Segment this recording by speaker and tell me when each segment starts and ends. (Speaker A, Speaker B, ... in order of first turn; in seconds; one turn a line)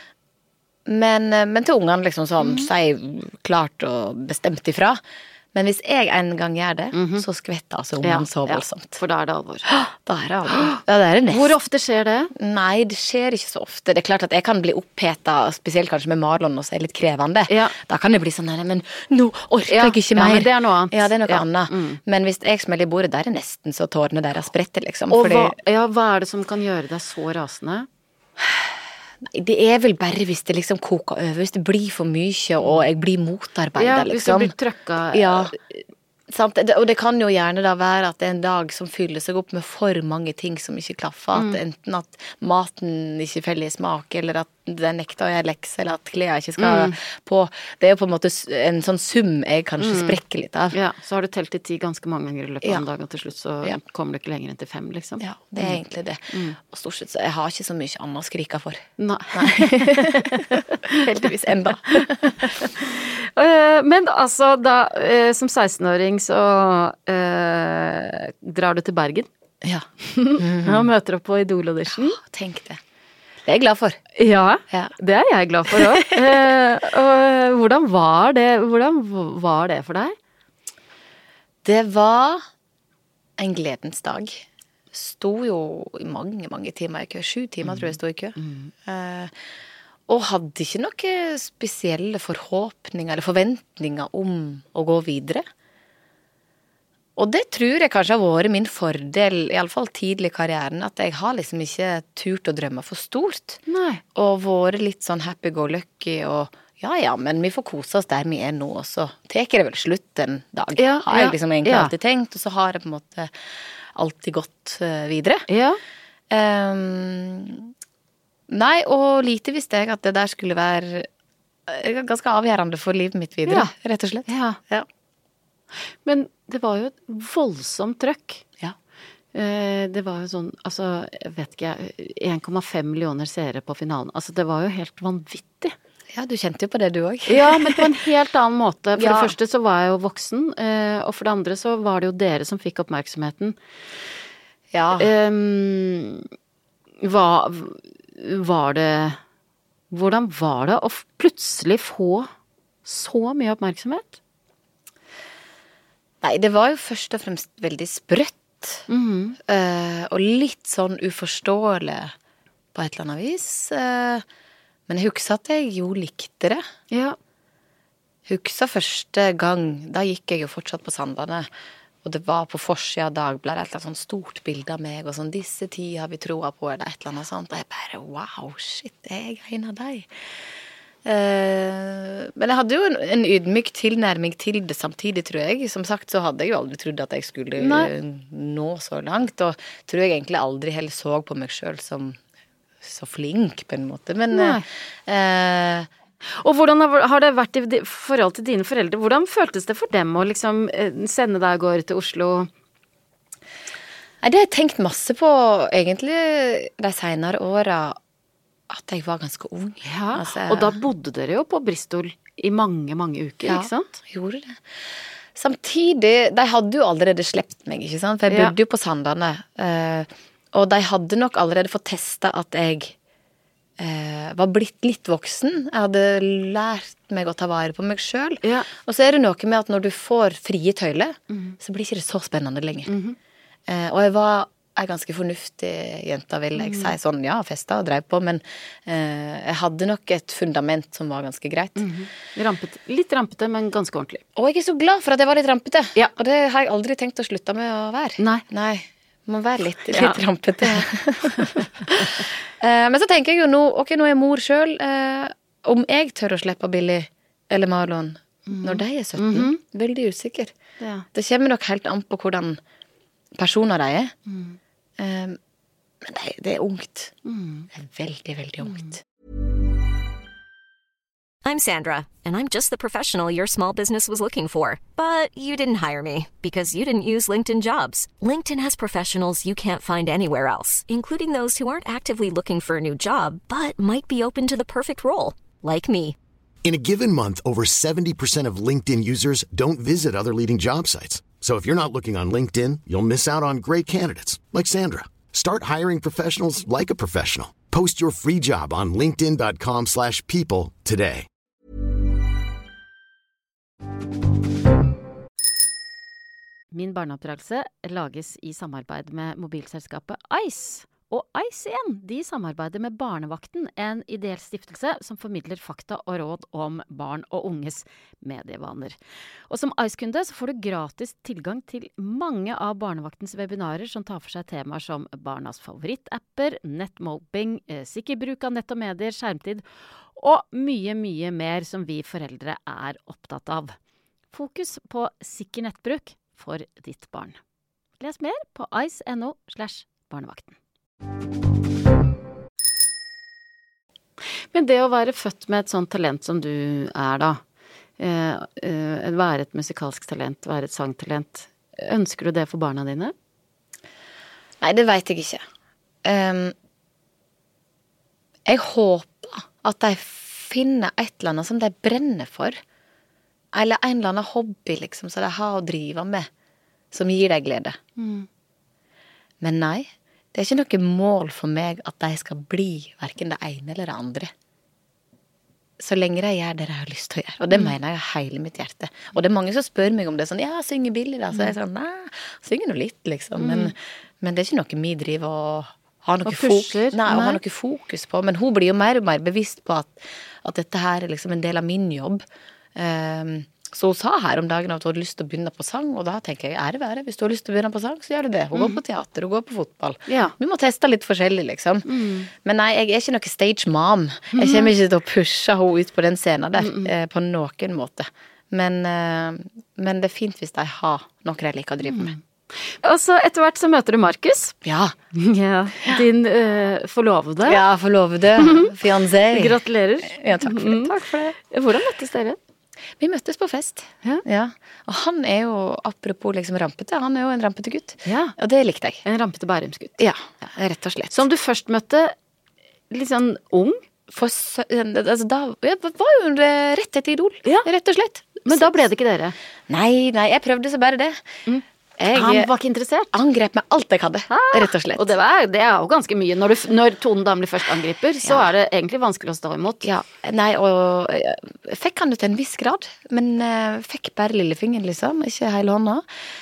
Speaker A: 0.9-5.0
Speaker B: 2.4-2.7
Speaker A: 5.5-9.0
Speaker B: 6.9-7.2
Speaker B: 8.0-9.7
Speaker A: 9.7-11.6
Speaker B: 10.5-12.3
Speaker A: 12.3-25.6
Speaker B: 17.5-17.8
Speaker B: 19.7-22.0
Speaker B: 25.1-27.9
Speaker A: 28.4-34.5
Speaker B: 33.8-35.6
Speaker A: 35.1-35.5
Speaker A: 36.3-50.8
Speaker B: 41.3-41.6
Speaker B: 46.6-47.0
Speaker B: 49.8-50.2
Speaker B: 50.7-55.8
Speaker A: 55.2-62.5
Speaker B: 56.3-56.6
Speaker B: 59.0-61.0
Speaker B: 61.9-69.3
Speaker B: 70.0-72.2
Speaker A: 70.4-70.9
Speaker A: 71.9-72.8
Speaker A: 73.4-74.0
Speaker B: 74.2-80.2
Speaker A: 75.7-76.4
Speaker A: 81.6-82.4
Speaker A: 83.4-89.3
Speaker B: 87.7-88.7
Speaker A: 90.1-95.5
Speaker A: 97.2-103.6
Speaker B: 103.7-104.0
Speaker A: 104.2-113.3
Speaker B: 110.8-111.9
Speaker A: 113.9-115.5
Speaker B: 115.5-115.8
Speaker A: 116.3-117.7
Speaker A: 118.5-121.1
Speaker A: 121.7-124.9
Speaker B: 124.3-124.6
Speaker B: 126.0-128.4
Speaker B: 129.3-135.8
Speaker A: 136.1-137.9
Speaker B: 137.3-143.6
Speaker A: 139.0-139.3
Speaker A: 144.7-145.1
Speaker B: 145.0-146.3
Speaker B: 147.0-149.2
Speaker B: 149.9-152.3
Speaker B: 152.8-154.2
Speaker A: 156.2-158.9
Speaker B: 158.9-159.4
Speaker A: 159.4-162.1
Speaker A: 162.8-164.2
Speaker A: 164.9-166.6
Speaker B: 166.9-167.2
Speaker A: 168.3-171.5
Speaker A: 172.0-180.1
Speaker A: 181.0-192.2
Speaker B: 187.6-187.9
Speaker A: 192.8-195.9
Speaker B: 194.3-194.6
Speaker B: 196.2-202.5
Speaker A: 204.2-208.0
Speaker A: 208.7-210.8
Speaker B: 209.8-213.9
Speaker A: 213.4-214.6
Speaker A: 215.3-222.9
Speaker B: 218.3-218.5
Speaker A: 223.8-232.9
Speaker B: 228.4-228.7
Speaker B: 231.3-231.6
Speaker B: 232.9-233.2
Speaker A: 233.7-241.9
Speaker B: 236.6-236.9
Speaker B: 241.8-244.2
Speaker A: 244.4-260.5
Speaker B: 249.9-251.7
Speaker B: 258.5-259.6
Speaker B: 260.8-261.1
Speaker A: 261.1-262.6
Speaker A: 263.4-264.1
Speaker B: 264.3-264.6
Speaker A: 265.0-265.4
Speaker A: 266.0-267.1
Speaker B: 267.2-267.7
Speaker A: 267.7-269.0
Speaker B: 268.6-268.9
Speaker C: 271.4-286.2
Speaker D: 286.6-301.3
Speaker B: 306.7-319.0
Speaker B: 319.5-329.6
Speaker B: 330.2-333.8
Speaker B: 334.3-337.4
Speaker B: 338.0-340.6
Speaker B: 344.5-347.4
Speaker B: 348.0-353.1
Speaker A: 354.6-355.4
Speaker A: 356.0-356.6
Speaker A: 358.5-362.6
Speaker A: 363.5-366.3
Speaker A: 366.9-367.8
Speaker B: 368.0-368.3
Speaker A: 369.4-374.3
Speaker A: 375.8-392.2
Speaker B: 383.4-383.7
Speaker B: 386.2-387.4
Speaker A: 392.8-412.1
Speaker B: 398.5-398.8
Speaker B: 400.1-400.3
Speaker B: 401.9-402.3
Speaker B: 404.3-404.7
Speaker B: 406.6-406.9
Speaker B: 411.9-412.2
Speaker B: 412.8-414.6
Speaker A: 414.6-415.0
Speaker B: 415.1-417.6
Speaker A: 417.4-421.4
Speaker B: 418.4-418.8
Speaker B: 419.3-422.4
Speaker A: 423.0-429.0
Speaker B: 428.1-428.4
Speaker B: 429.0-430.0
Speaker A: 430.0-431.3
Speaker B: 431.1-432.1
Speaker B: 432.9-433.8
Speaker A: 434.1-438.9
Speaker B: 438.5-439.4
Speaker A: 439.7-441.2
Speaker B: 441.5-443.1
Speaker A: 442.0-442.5
Speaker A: 443.1-445.1
Speaker B: 444.3-449.9
Speaker A: 449.8-456.1